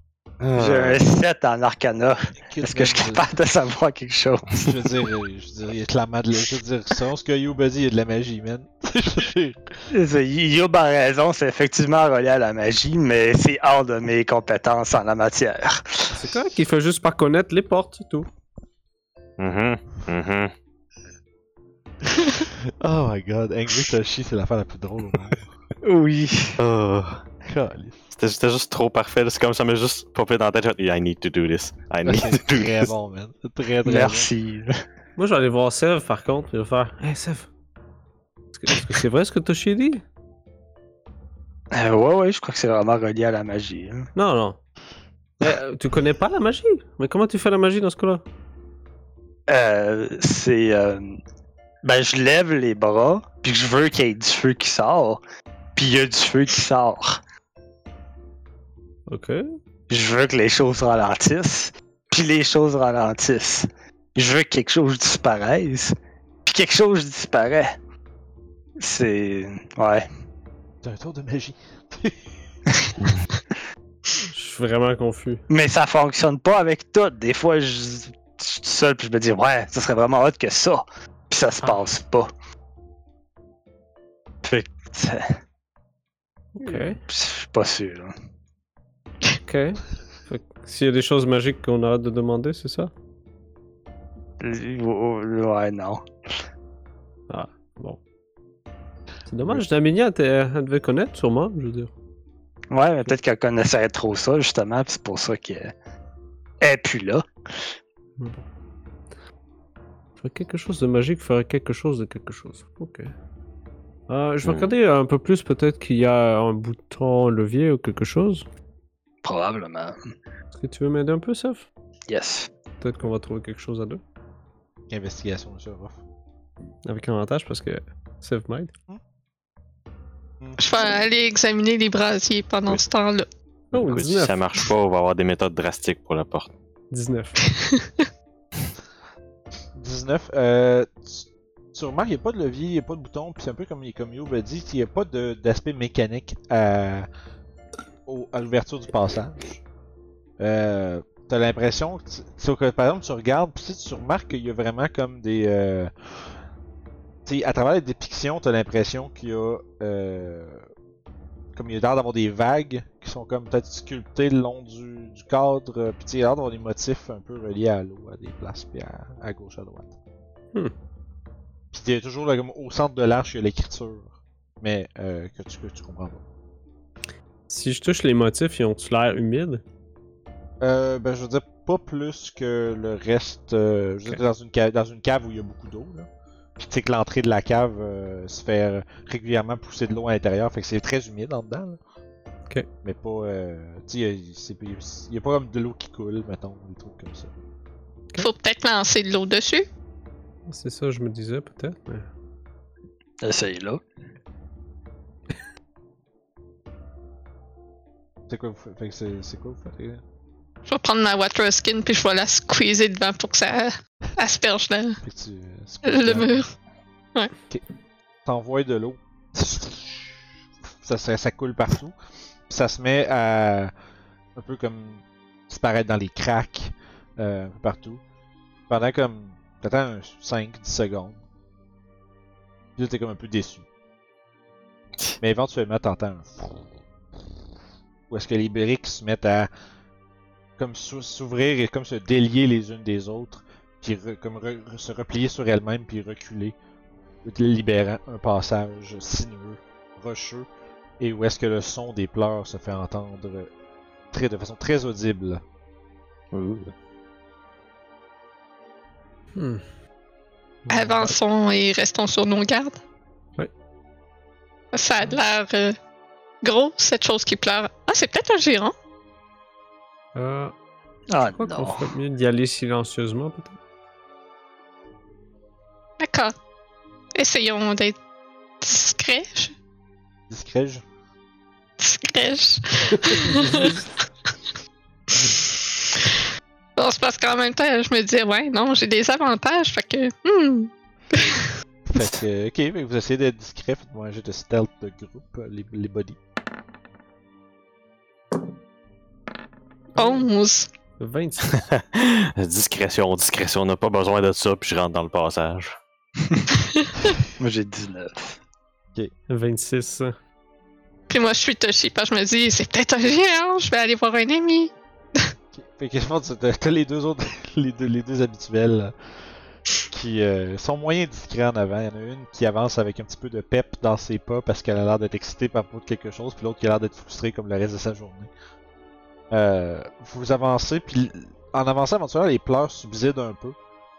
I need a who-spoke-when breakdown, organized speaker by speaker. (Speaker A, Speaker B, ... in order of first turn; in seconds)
Speaker A: 0.4-1.0, 19.4-20.5, 26.6-27.2, 28.1-32.9, 73.0-73.3, 114.4-114.7, 133.7-136.5, 256.3-256.7, 301.6-305.8
Speaker B: 0.6-5.1, 9.9-16.1, 25.8-26.6, 33.9-34.7, 41.7-44.1, 49.5-51.2, 51.8-55.2, 55.8-57.2, 59.9-65.9, 66.5-67.8, 68.8-70.1, 75.5-82.3, 84.5-85.4, 86.6-88.2, 94.4-96.1, 102.7-105.7, 106.6-107.3, 119.2-120.0, 122.1-122.5, 203.2-203.8, 271.1-271.9, 307.4-308.4
Speaker C: 2.5-3.3, 4.5-9.7, 22.2-25.5, 27.4-28.1, 32.0-34.3, 70.8-72.2, 124.9-126.0, 130.4-130.8, 139.8-147.1, 148.1-149.6, 150.4-156.4, 157.3-160.7, 161.6-169.9, 171.7-176.2, 180.6-191.8, 192.8-197.3, 208.3-210.0, 215.0-216.5, 218.2-220.2, 220.8-221.9, 222.5-223.7, 224.4-228.0, 228.7-231.2, 232.8-233.7, 235.2-236.7, 238.1-239.5, 240.6-246.6, 247.2-250.5, 251.0-253.5, 254.1-255.4, 280.3-280.8, 291.9-296.2, 315.5-318.9, 319.9-328.3, 329.3-333.6
Speaker D: 16.1-18.3, 35.2-37.5, 38.5-40.0, 44.2-44.6, 45.4-48.2, 59.1-59.5, 74.2-75.4, 86.5-87.0, 89.5-92.9, 97.3-98.0, 99.3-101.9, 108.2-108.4, 110.2-113.1, 114.1-118.5, 120.5-121.7, 122.8-124.0, 126.8-128.7, 133.7-134.4, 136.9-137.4, 177.5-179.6, 200.5-202.1, 259.4-259.6, 260.7-261.1, 270.1-270.5, 271.3-273.6, 300.0-300.2, 301.0-301.6, 309.3-310.1
Speaker E: 130.6-133.3, 137.5-138.1, 198.2-199.7, 210.7-215.0, 215.8-216.5, 260.7-262.8, 264.7-265.8, 266.4-268.7, 276.0-276.3, 277.1-278.0, 278.6-279.5, 281.8-283.9, 285.2-286.2, 286.8-291.5, 300.0-300.7, 306.6-307.1, 311.1-315.3